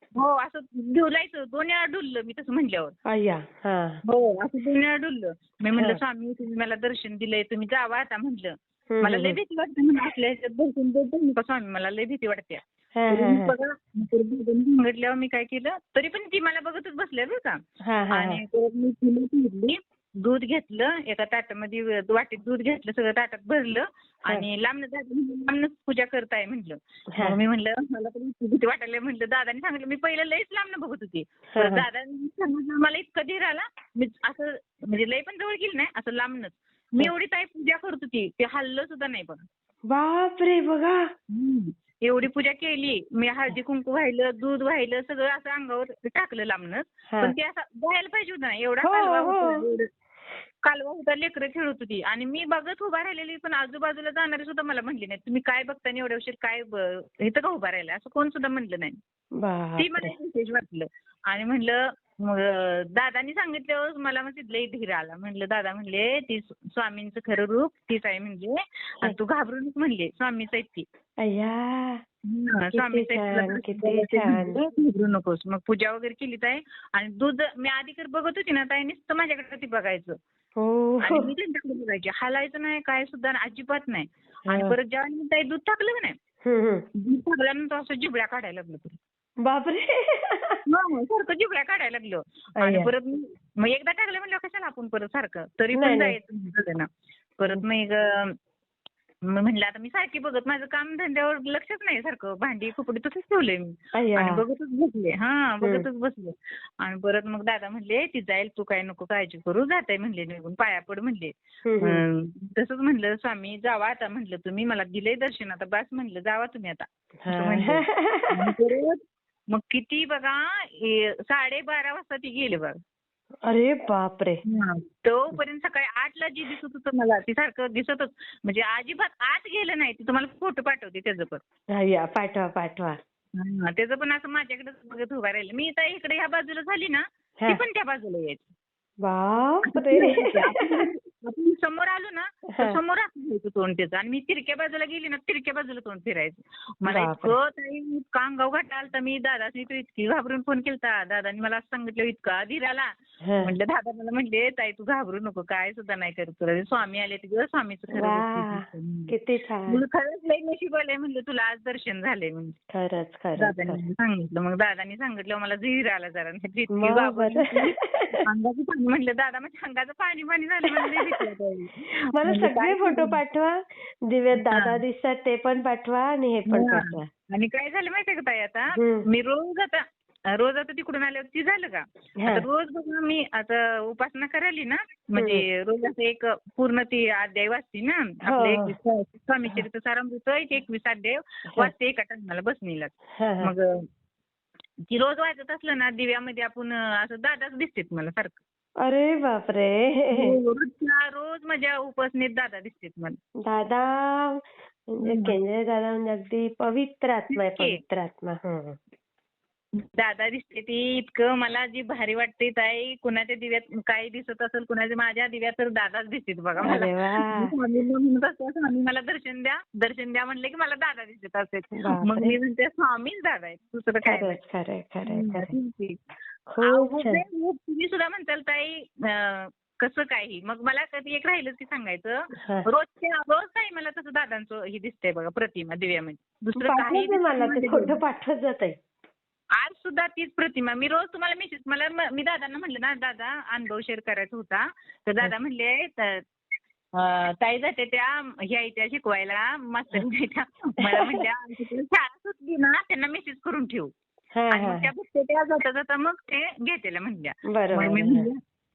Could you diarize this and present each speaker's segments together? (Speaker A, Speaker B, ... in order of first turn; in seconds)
Speaker A: 0.2-2.9, 4.1-17.6, 18.1-39.4, 41.3-49.9, 50.7-59.0, 59.8-70.9, 72.3-80.2, 81.0-86.2, 87.0-89.0, 90.7-96.9, 97.4-98.3, 99.3-117.8, 118.4-119.0, 119.5-122.8, 124.5-131.4, 133.4-138.5, 139.7-152.9, 153.4-159.1, 159.7-162.6, 163.4-173.2, 174.5-174.8, 176.5-179.8, 180.4-193.7, 194.9-198.4, 200.2-203.2, 205.0-205.4, 207.3-207.8, 209.8-224.3, 225.1-226.0, 226.6-232.2, 232.7-238.0, 239.6-246.2, 247.0-253.9, 254.5-258.4
Speaker B: 3.1-4.0, 8.9-9.4, 13.0-13.5, 17.9-18.4, 31.6-31.8, 39.9-41.0, 48.8-49.6, 59.4-60.1, 71.2-72.0, 72.7-74.6, 80.6-81.3, 84.5-84.7, 86.5-86.8, 89.4-90.6, 92.6-92.9, 95.7-96.2, 104.0-104.4, 111.7-112.0, 117.3-118.3, 123.5-124.4, 131.8-133.0, 139.1-140.8, 142.5-142.8, 146.9-147.4, 153.3-153.5, 157.9-159.8, 162.7-163.8, 166.8-168.0, 170.7-171.0, 172.2-177.1, 178.8-179.1, 185.2-185.4, 188.3-188.7, 193.2-193.5, 198.8-200.3, 203.5-204.4, 204.9-208.8, 216.7-217.5, 221.8-222.3, 224.1-225.5, 226.5-227.2, 236.6-238.8, 250.9-251.2, 254.4-254.9, 257.5-258.3